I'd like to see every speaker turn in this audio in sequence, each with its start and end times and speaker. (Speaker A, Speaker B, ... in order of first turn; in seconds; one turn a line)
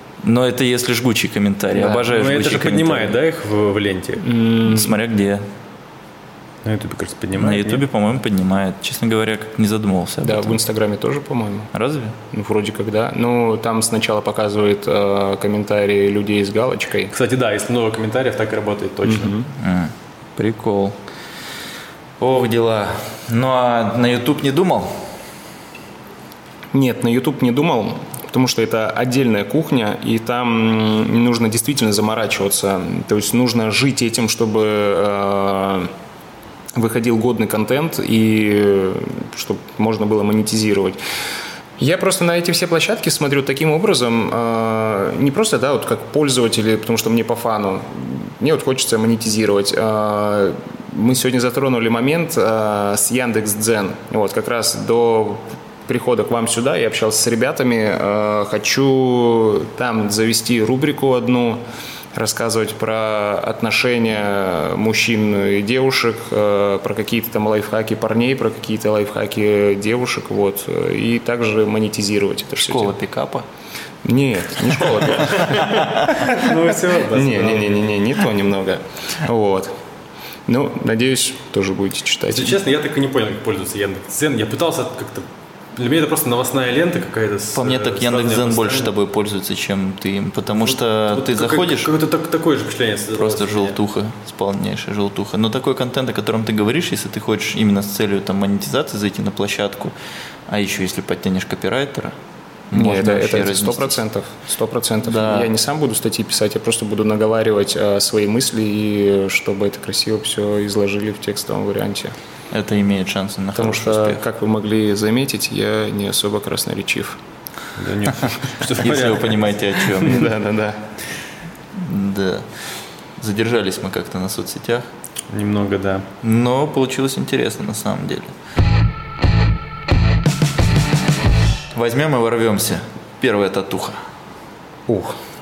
Speaker A: 0.2-3.2
Speaker B: 1.7-2.1
Speaker C: 2.1-4.2
Speaker B: 4.2-5.0
Speaker A: 4.7-5.4
Speaker C: 6.7-7.8
Speaker A: 7.4-10.6
Speaker B: 10.2-11.7
Speaker A: 11.7-12.2
Speaker B: 12.3-17.1
Speaker C: 17.1-19.3
Speaker B: 19.1-19.5
Speaker A: 19.6-21.0
Speaker A: 22.2-25.0
Speaker B: 26.7-35.9
Speaker B: 36.8-41.0
Speaker B: 41.8-61.6
Speaker B: 62.1-72.9
Speaker A: 72.6-73.5
Speaker B: 74.0-75.9
Speaker C: 75.3-77.8
Speaker B: 77.0-79.7
Speaker B: 80.5-82.6
Speaker C: 82.3-88.9
Speaker A: 87.5-91.9
Speaker C: 91.1-93.8
Speaker A: 93.2-100.0
Speaker A: 100.5-102.2
Speaker A: 102.7-104.0
Speaker B: 102.7-112.2
Speaker A: 105.0-105.5
Speaker A: 112.5-114.2
Speaker B: 113.6-117.2
Speaker C: 117.8-119.4
Speaker A: 118.8-120.3
Speaker B: 120.0-120.8
Speaker A: 121.7-122.5
Speaker A: 123.2-124.9
Speaker C: 125.3-126.1
Speaker A: 126.2-128.3
Speaker A: 131.7-134.0
Speaker B: 134.9-135.2